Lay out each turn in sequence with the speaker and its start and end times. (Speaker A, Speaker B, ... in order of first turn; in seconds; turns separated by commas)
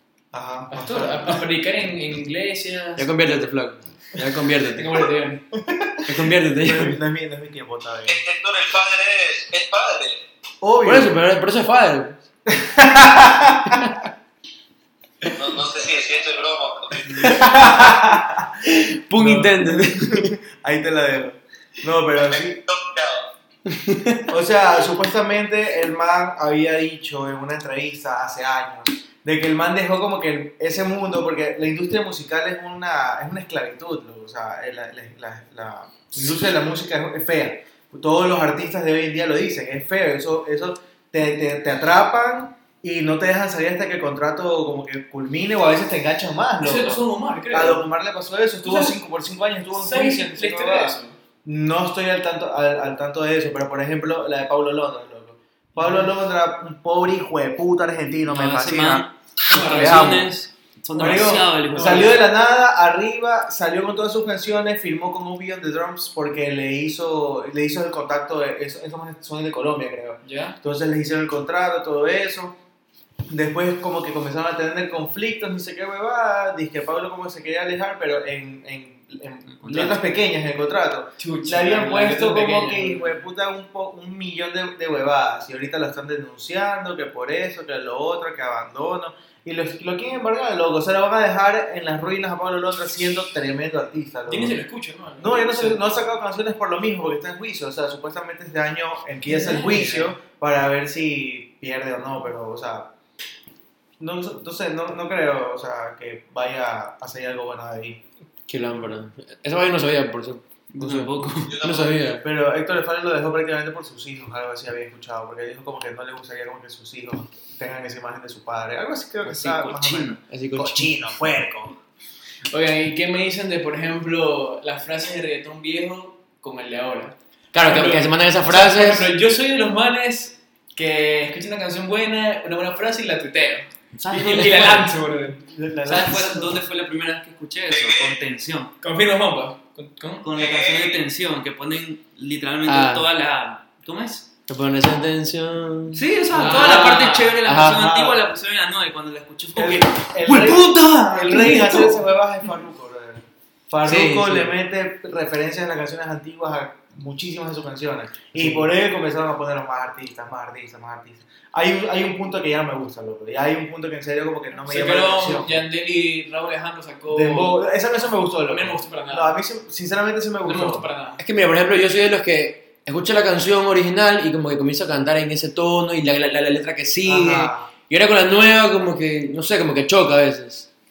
Speaker A: 0.3-1.4, Speaker B: 0.7-3.1, Speaker C: 3.0-4.9, Speaker B: 4.7-5.5, Speaker A: 5.5-8.2, Speaker C: 6.0-7.0, Speaker D: 8.1-10.2, Speaker A: 10.6-11.2, Speaker C: 10.8-12.2, Speaker A: 12.5-13.9, Speaker D: 15.2-17.4, Speaker C: 17.2-20.4, Speaker A: 17.2-18.6, Speaker A: 19.2-22.6, Speaker D: 22.2-23.3, Speaker C: 23.7-24.2, Speaker A: 24.3-60.3, Speaker B: 46.6-47.9, Speaker B: 48.6-49.0, Speaker B: 49.7-51.2, Speaker B: 55.8-56.1, Speaker E: 58.3-62.2, Speaker B: 59.5-60.1, Speaker A: 60.9-72.5, Speaker B: 61.7-62.2, Speaker B: 70.2-70.6, Speaker A: 73.3-94.6, Speaker E: 79.5-80.1, Speaker B: 81.2-83.2, Speaker B: 94.3-95.9, Speaker A: 95.2-102.9, Speaker B: 99.2-100.1, Speaker A: 104.0-108.0, Speaker C: 108.5-112.2, Speaker E: 110.7-111.6, Speaker D: 111.5-112.1, Speaker A: 112.2-121.8, Speaker E: 119.2-120.2, Speaker C: 120.3-120.9, Speaker B: 122.5-135.4, Speaker C: 127.5-129.1, Speaker E: 133.9-134.9, Speaker A: 135.4-136.6, Speaker E: 135.8-138.7, Speaker D: 137.7-138.2, Speaker B: 138.8-140.3, Speaker E: 140.2-144.3, Speaker D: 140.3-141.0, Speaker C: 142.7-143.1, Speaker C: 144.5-146.8, Speaker E: 145.9-152.0, Speaker B: 146.4-147.3, Speaker C: 147.4-147.8, Speaker A: 147.7-148.2, Speaker A: 149.6-165.6, Speaker C: 153.8-154.6, Speaker C: 158.3-158.7, Speaker B: 164.5-167.6, Speaker A: 167.1-170.9, Speaker B: 168.4-169.4, Speaker B: 170.4-171.2, Speaker C: 171.2-180.7, Speaker A: 177.0-177.7